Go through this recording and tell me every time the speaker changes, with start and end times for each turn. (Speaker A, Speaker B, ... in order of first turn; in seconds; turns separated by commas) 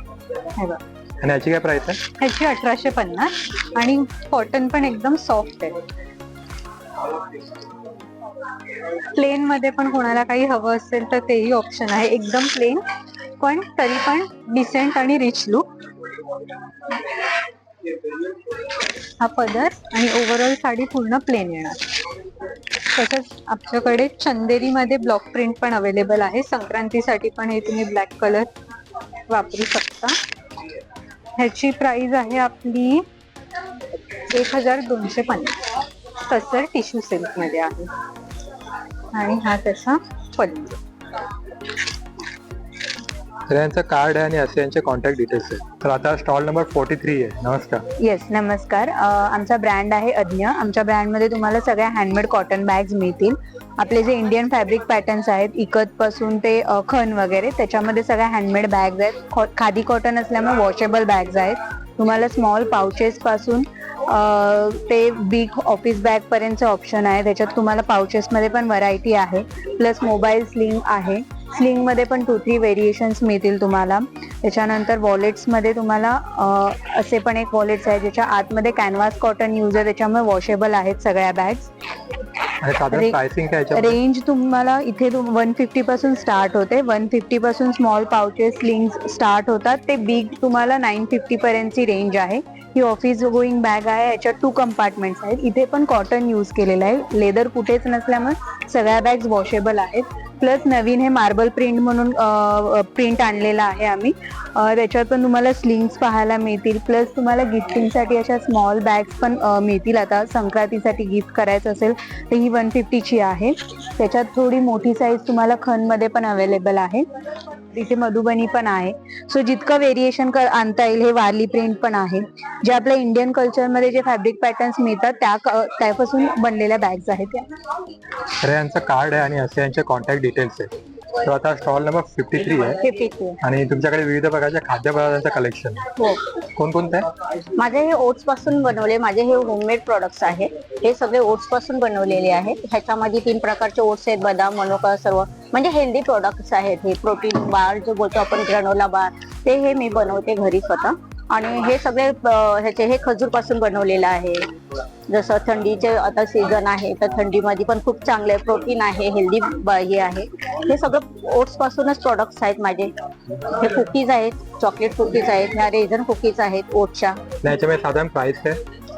Speaker A: 1.2-2.0, Speaker B: 2.2-5.8, Speaker B: 9.1-12.8, Speaker B: 13.4-15.7, Speaker B: 19.2-21.8, Speaker B: 22.9-28.5, Speaker B: 29.3-30.2, Speaker B: 31.4-33.0, Speaker B: 34.1-35.6, Speaker B: 36.2-37.9, Speaker B: 39.1-40.8, Speaker A: 43.5-47.8, Speaker C: 48.0-81.7, Speaker A: 82.6-84.0, Speaker C: 82.9-83.2, Speaker C: 83.7-117.0, Speaker C: 117.7-127.4, Speaker A: 128.4-130.7, Speaker A: 131.2-132.8, Speaker D: 132.9-133.3, Speaker A: 133.4-135.8, Speaker A: 136.6-137.0, Speaker D: 137.6-154.4, Speaker D: 155.1-162.9, Speaker D: 163.6-167.2, Speaker A: 167.4-168.6